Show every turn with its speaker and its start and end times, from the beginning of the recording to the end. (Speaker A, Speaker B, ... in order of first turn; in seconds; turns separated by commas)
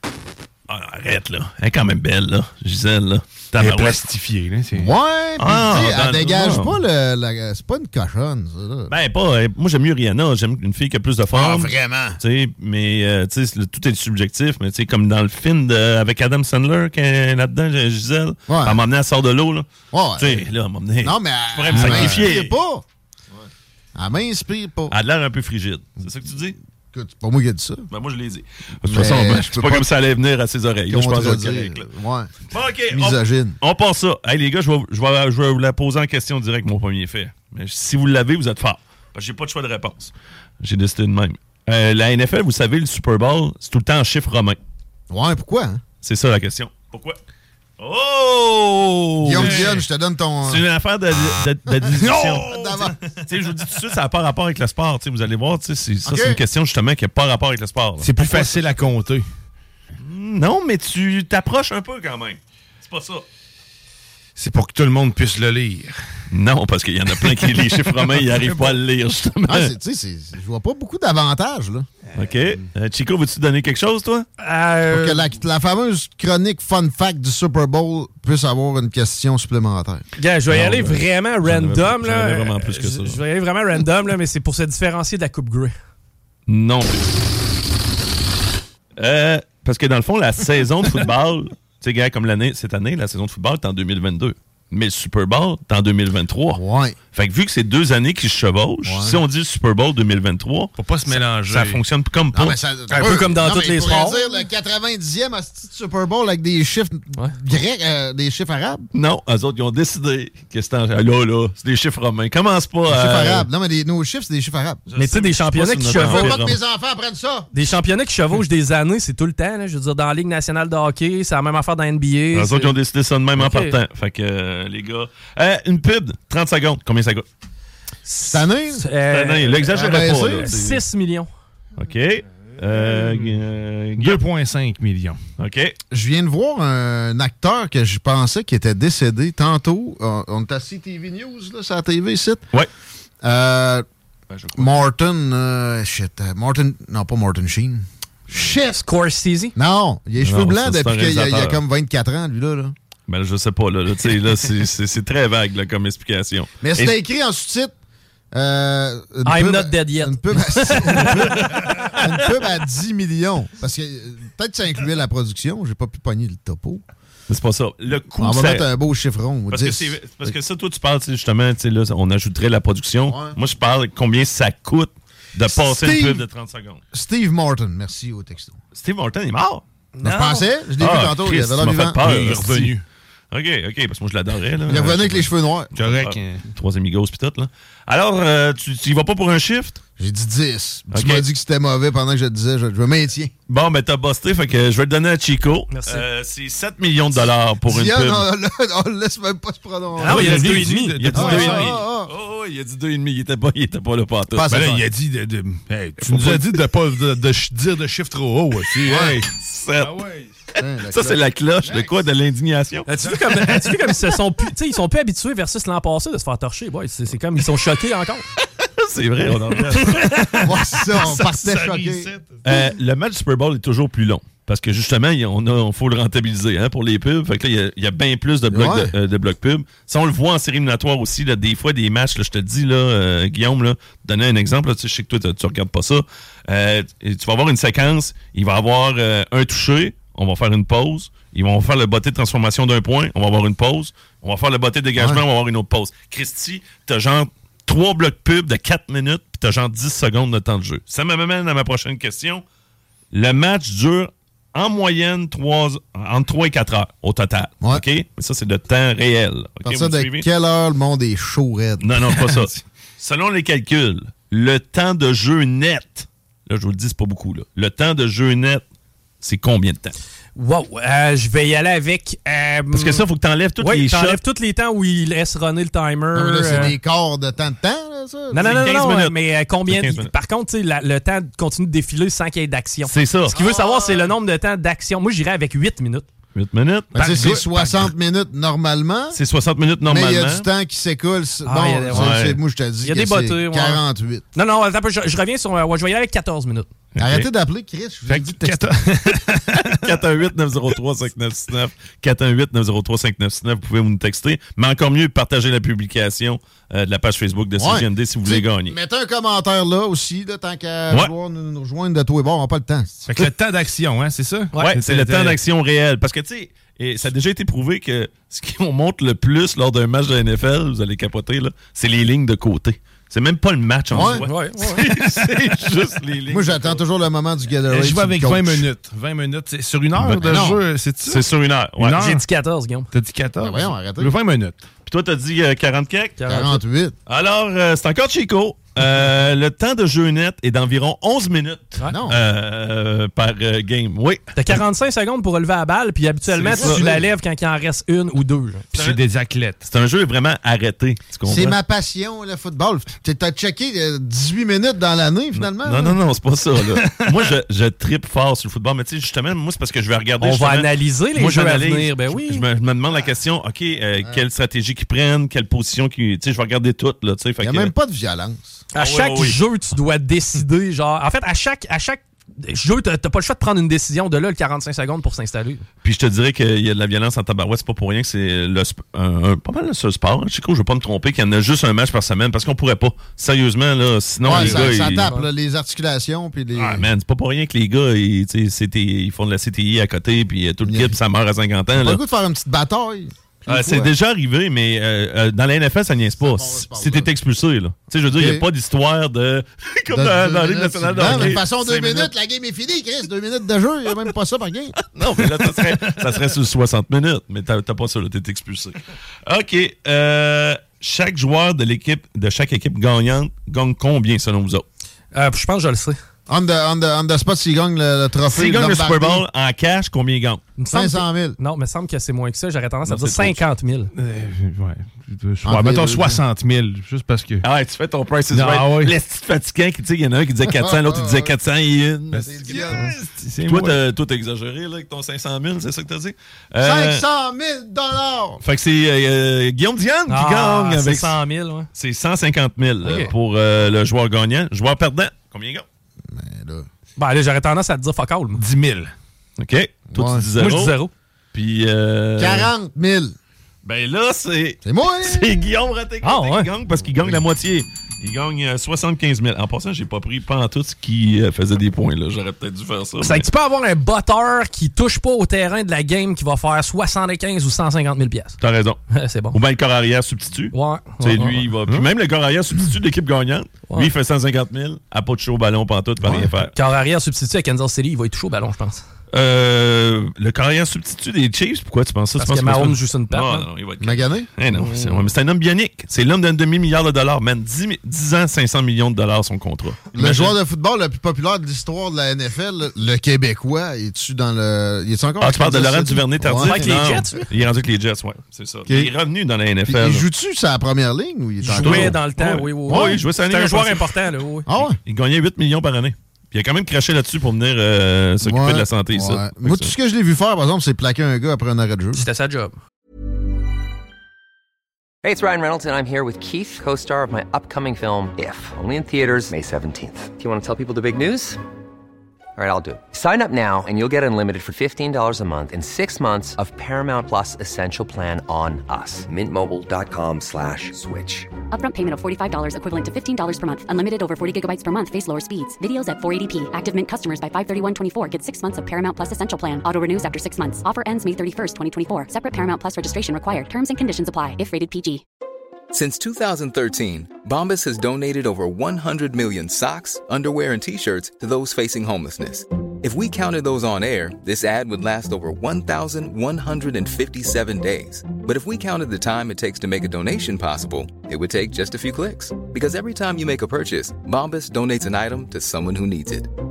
Speaker A: 0.7-4.0, Speaker B: 3.6-4.9, Speaker C: 4.8-8.9, Speaker A: 5.4-6.8, Speaker A: 8.9-22.5, Speaker C: 11.3-12.2, Speaker C: 18.5-18.8, Speaker C: 19.9-20.5, Speaker C: 21.0-22.8, Speaker C: 23.9-24.9, Speaker A: 24.9-26.6, Speaker C: 26.9-27.9, Speaker A: 27.9-31.8, Speaker C: 28.9-29.9, Speaker C: 30.9-32.3, Speaker A: 32.5-44.6, Speaker C: 32.9-33.6, Speaker C: 45.1-45.8, Speaker A: 46.0-47.2, Speaker A: 47.8-49.8, Speaker C: 49.2-50.6, Speaker B: 49.4-49.7, Speaker A: 50.4-58.7, Speaker C: 51.7-53.0, Speaker C: 56.0-56.4, Speaker B: 58.0-59.2, Speaker A: 60.0-63.2, Speaker B: 64.4-66.0, Speaker A: 66.3-69.7, Speaker C: 68.4-68.8, Speaker C: 69.5-71.9, Speaker A: 72.1-74.3, Speaker D: 74.4-75.2, Speaker C: 74.9-80.0, Speaker D: 80.2-85.7, Speaker A: 80.5-83.2, Speaker A: 86.5-87.1, Speaker A: 89.0-96.6, Speaker C: 96.5-97.0, Speaker A: 97.1-102.6, Speaker C: 98.8-99.2, Speaker B: 100.8-101.8, Speaker C: 102.3-108.9, Speaker D: 102.9-104.2, Speaker A: 108.9-113.5, Speaker C: 112.9-114.8, Speaker A: 114.9-116.6, Speaker D: 115.0-116.3, Speaker C: 115.9-117.5, Speaker D: 117.5-122.7, Speaker A: 122.3-127.2, Speaker D: 123.4-123.8, Speaker C: 128.2-128.8, Speaker D: 128.7-131.3, Speaker A: 129.1-130.8, Speaker C: 129.7-130.5, Speaker A: 131.8-134.2, Speaker B: 132.9-133.2, Speaker B: 134.0-135.2, Speaker A: 135.4-135.8, Speaker C: 135.9-142.4, Speaker C: 143.2-143.8, Speaker A: 144.3-144.7, Speaker C: 144.5-148.8, Speaker D: 148.5-149.5, Speaker C: 149.5-152.7, Speaker A: 150.2-151.6, Speaker A: 153.1-156.9, Speaker C: 156.6-157.7, Speaker C: 158.3-166.8, Speaker D: 159.2-161.4, Speaker A: 161.1-162.1, Speaker A: 167.3-168.7, Speaker C: 168.2-170.3, Speaker A: 169.5-176.8, Speaker C: 173.1-173.4, Speaker C: 175.5-176.2, Speaker C: 176.9-178.6, Speaker A: 178.7-180.2, Speaker C: 180.0-182.0, Speaker A: 180.8-182.7, Speaker B: 182.0-182.8, Speaker A: 183.3-189.8, Speaker C: 184.7-185.7, Speaker B: 185.7-186.4, Speaker C: 190.0-193.3, Speaker A: 190.9-191.2, Speaker A: 193.5-198.3, Speaker D: 195.7-196.0, Speaker C: 197.6-200.4, Speaker D: 200.0-201.4, Speaker B: 200.0-201.7, Speaker A: 200.1-204.8, Speaker C: 201.1-202.1, Speaker C: 204.3-204.8, Speaker B: 204.5-210.3, Speaker A: 206.0-206.4, Speaker A: 208.9-210.0, Speaker C: 210.6-211.2, Speaker A: 210.9-212.9, Speaker D: 212.9-218.3, Speaker B: 213.0-213.8, Speaker A: 218.6-220.5, Speaker D: 219.7-220.8, Speaker C: 220.4-222.1, Speaker B: 221.0-222.4, Speaker A: 222.4-252.4, Speaker C: 228.5-228.9, Speaker C: 245.0-245.2, Speaker A: 253.1-260.2, Speaker C: 259.6-262.1, Speaker A: 261.8-268.6, Speaker A: 269.2-269.9, Speaker D: 270.3-273.0, Speaker A: 272.7-274.2, Speaker D: 273.6-276.7, Speaker C: 276.1-278.6, Speaker D: 278.3-286.1, Speaker A: 278.4-280.1, Speaker A: 282.9-283.4, Speaker A: 286.3-287.4, Speaker C: 286.9-289.2, Speaker D: 287.0-287.4, Speaker A: 289.1-290.5, Speaker C: 289.8-294.2, Speaker D: 291.4-292.2, Speaker A: 291.9-292.4, Speaker D: 292.8-293.8, Speaker D: 294.3-296.7, Speaker A: 296.9-297.3, Speaker C: 297.0-298.8, Speaker B: 298.1-300.0, Speaker A: 299.5-308.8, Speaker C: 307.6-313.0, Speaker B: 313.1-315.4, Speaker A: 314.6-326.8, Speaker C: 323.9-324.2, Speaker D: 324.1-324.8, Speaker B: 324.9-325.4, Speaker C: 326.3-328.7, Speaker B: 327.7-332.2, Speaker A: 330.0-330.5, Speaker C: 330.2-330.6, Speaker A: 331.1-332.2, Speaker D: 332.0-332.9, Speaker B: 332.9-334.6, Speaker C: 333.4-334.1, Speaker A: 334.9-336.2, Speaker D: 336.2-336.6, Speaker C: 336.2-336.9, Speaker A: 337.1-344.6, Speaker C: 341.9-342.2, Speaker D: 344.3-348.6, Speaker A: 346.3-346.9, Speaker C: 346.5-347.0, Speaker B: 348.7-349.6, Speaker A: 349.6-351.6, Speaker C: 351.2-356.0, Speaker A: 355.3-367.7, Speaker D: 360.2-362.4, Speaker C: 367.4-368.6, Speaker D: 368.7-375.6, Speaker A: 368.8-369.4, Speaker A: 375.8-385.1, Speaker C: 384.2-386.9, Speaker D: 384.3-385.3, Speaker A: 386.6-392.0, Speaker C: 390.6-390.9, Speaker C: 391.7-393.9, Speaker A: 393.5-402.1, Speaker C: 396.2-397.1, Speaker C: 398.1-398.4, Speaker C: 399.9-404.8, Speaker A: 404.9-414.6, Speaker D: 415.1-416.0, Speaker C: 416.3-419.2, Speaker A: 418.3-420.4, Speaker D: 420.6-423.9, Speaker C: 420.7-421.4, Speaker A: 422.9-423.4, Speaker B: 423.9-427.4, Speaker C: 425.4-426.2, Speaker A: 427.4-437.0, Speaker B: 428.3-428.9, Speaker C: 430.5-431.3, Speaker B: 432.1-433.8, Speaker C: 432.2-432.9, Speaker C: 436.6-438.4, Speaker A: 438.4-441.2, Speaker D: 440.1-441.7, Speaker A: 441.7-445.6, Speaker D: 442.8-443.1, Speaker C: 446.0-446.7, Speaker D: 447.0-448.4, Speaker B: 448.4-448.9, Speaker A: 449.4-450.8, Speaker C: 449.9-450.3, Speaker D: 450.4-450.9, Speaker A: 451.3-452.5, Speaker C: 452.2-453.1, Speaker A: 453.6-463.3, Speaker C: 454.6-455.4, Speaker D: 456.0-456.5, Speaker D: 463.0-468.4, Speaker A: 468.4-468.8, Speaker D: 468.9-469.4, Speaker A: 469.3-476.5, Speaker D: 470.5-471.4, Speaker D: 476.4-478.8, Speaker A: 479.1-490.4, Speaker D: 482.2-483.5, Speaker C: 483.8-484.3, Speaker C: 489.9-497.2, Speaker A: 495.2-500.1, Speaker D: 496.4-497.2, Speaker C: 498.7-498.9, Speaker C: 499.7-502.0, Speaker D: 501.4-504.5, Speaker A: 501.6-503.9, Speaker C: 502.7-503.0, Speaker C: 504.5-504.8, Speaker A: 504.5-509.7, Speaker C: 508.2-512.0, Speaker D: 511.9-512.6, Speaker E: 515.0-521.4, Speaker E: 522.4-531.3, Speaker F: 531.5-545.0, Speaker G: 545.7-566.3